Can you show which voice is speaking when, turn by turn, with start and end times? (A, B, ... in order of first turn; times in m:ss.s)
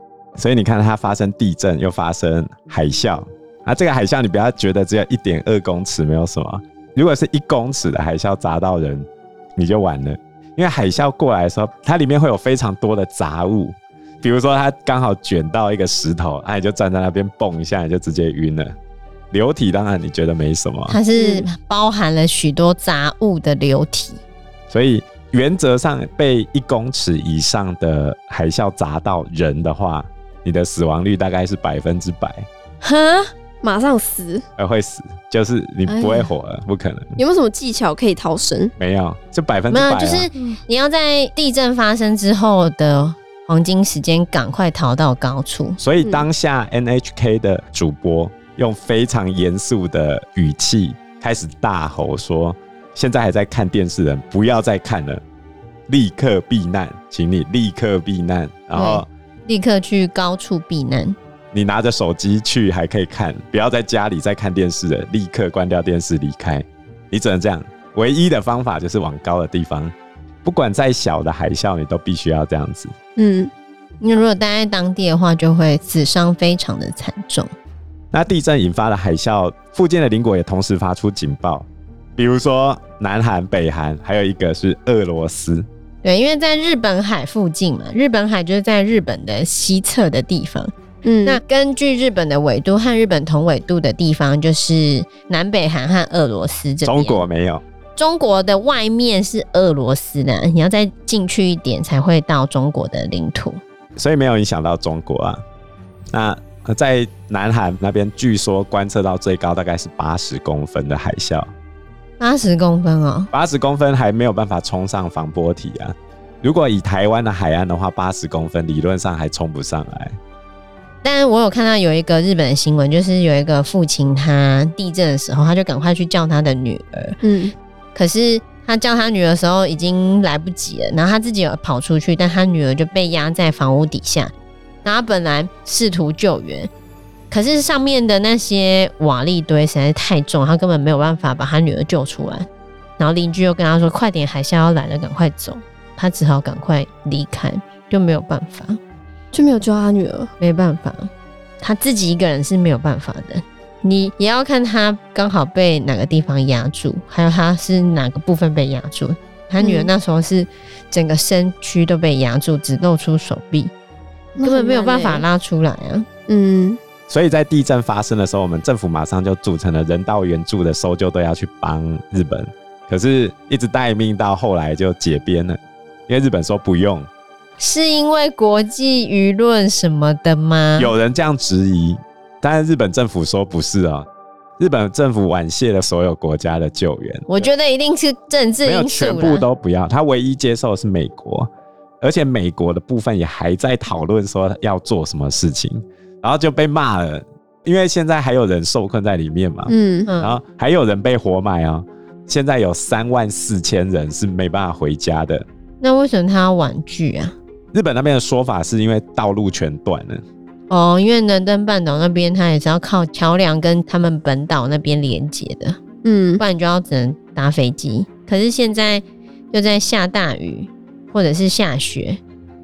0:00.4-0:18.7 A
0:19.3-0:21.0 A
0:20.9-0:24.2 B
0:21.1-0:21.4 C
0:24.7-0:32.5 A
0:32.8-0:33.3 B
0:33.6-0:34.4 C
0:34.6-0:37.2 A
0:35.9-0:36.3 C
0:37.2-0:38.7 C
0:38.8-0:40.3 A
0:39.7-0:45.8 B
0:45.8-0:55.2 A
0:55.9-0:59.1 A
0:58.8-1:01.2 B
1:01.5-1:12.9 A
1:13.2-1:13.5 C
1:14.0-1:17.5 B
1:18.1-1:25.6 A
1:26.0-1:30.7 B
1:31.0-1:31.4 C
1:31.2-1:37.2 B
1:36.8-1:37.6 A
1:38.0-1:43.6 B
1:44.0-1:45.4 A
1:46.1-1:51.5 A
1:52.2-1:53.3 B
1:53.3-2:00.2 A
2:01.0-2:07.2 B
2:07.2-2:07.5 C
2:07.9-2:14.3 B
2:14.8-2:16.7 B
2:17.3-2:22.5 B
2:23.0-2:28.8 B
2:29.3-2:30.3 C
2:30.4-2:31.1 B
2:31.6-2:43.7 B
2:39.6-2:39.9 C
2:44.4-2:45.2 C
2:44.4-2:46.1 B
2:46.3-2:46.8 C
2:47.1-2:57.1 A
2:57.6-3:00.9 B
3:00.8-3:04.1 A
3:04.6-3:07.3 A
3:07.3-3:09.4 B
3:08.6-3:11.5 A
3:12.0-3:25.4 A
3:19.7-3:20.1 C
3:20.1-3:20.4 B
3:25.8-3:27.3 B
3:27.7-3:30.2 A
3:30.7-3:35.8 B
3:36.0-3:36.4 C
3:36.4-3:42.2 B